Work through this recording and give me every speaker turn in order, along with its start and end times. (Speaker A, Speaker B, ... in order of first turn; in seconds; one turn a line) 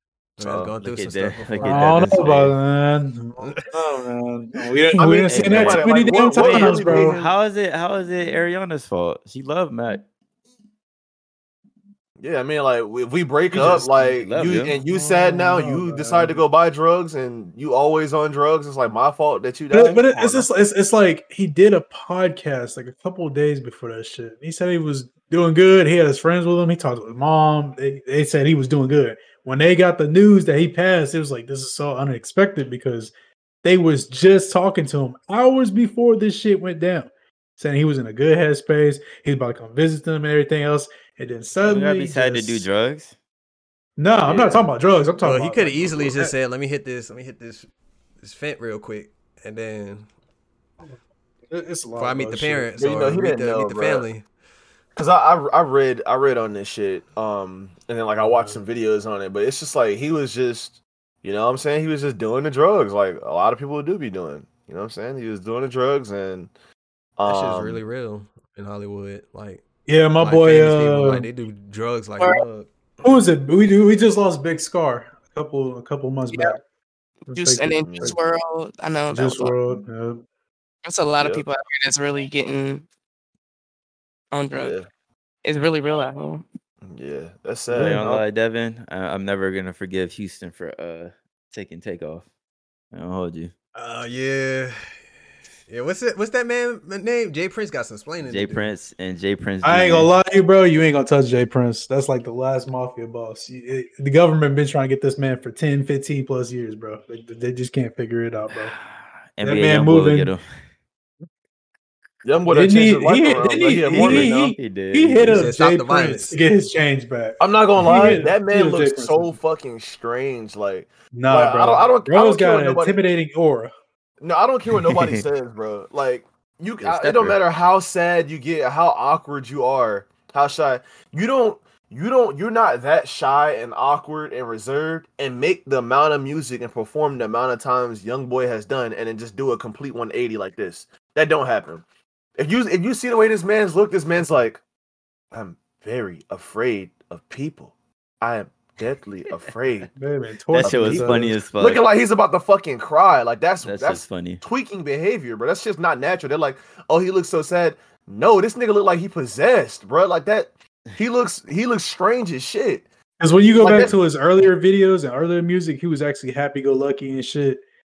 Speaker A: 0.4-2.1
Speaker B: 0.4-0.7
Speaker C: 0.8-2.5
Speaker D: 1.6-7.2
Speaker A: 3.4-3.7
Speaker B: 4.9-7.3
Speaker C: 5.3-10.0
Speaker B: 12.2-20.5
Speaker D: 13.6-13.8
Speaker C: 14.2-14.8
Speaker D: 14.9-16.4
Speaker D: 19.7-33.1
Speaker D: 33.6-42.7
Speaker C: 41.6-43.1
Speaker D: 44.0-46.3
Speaker B: 44.2-44.7
Speaker A: 45.2-47.7
Speaker B: 45.8-46.1
Speaker A: 48.2-50.1
Speaker D: 51.5-52.7
Speaker A: 52.0-54.2
Speaker B: 52.8-54.0
Speaker B: 55.0-66.5
Speaker D: 58.2-58.6
Speaker B: 67.2-67.8
Speaker A: 67.2-69.6
Speaker D: 69.9-71.3
Speaker A: 70.2-73.2
Speaker D: 73.0-76.6
Speaker D: 77.3-78.2
Speaker E: 77.3-79.5
Speaker B: 77.8-78.1
Speaker D: 79.1-80.2
Speaker E: 80.8-82.9
Speaker B: 81.2-81.4
Speaker E: 84.3-84.8
Speaker B: 84.5-84.8
Speaker E: 85.4-86.4
Speaker B: 86.8-88.2
Speaker C: 87.7-92.2
Speaker D: 87.7-88.0
Speaker C: 92.9-93.5
Speaker A: 93.8-95.0
Speaker A: 95.7-98.7
Speaker C: 98.2-100.1
Speaker D: 99.6-108.7
Speaker C: 108.5-110.5
Speaker D: 109.4-110.3
Speaker B: 112.2-114.3
Speaker D: 112.5-119.4
Speaker C: 113.9-115.4
Speaker A: 115.2-116.4
Speaker B: 117.4-123.0
Speaker D: 121.1-123.7
Speaker B: 124.2-141.8
Speaker C: 124.7-125.2
Speaker C: 126.8-127.4
Speaker B: 142.4-144.6
Speaker B: 145.3-149.9
Speaker D: 150.0-151.4
Speaker C: 150.5-151.8
Speaker B: 150.6-162.8
Speaker C: 153.6-154.4
Speaker D: 163.2-167.6
Speaker B: 163.5-163.9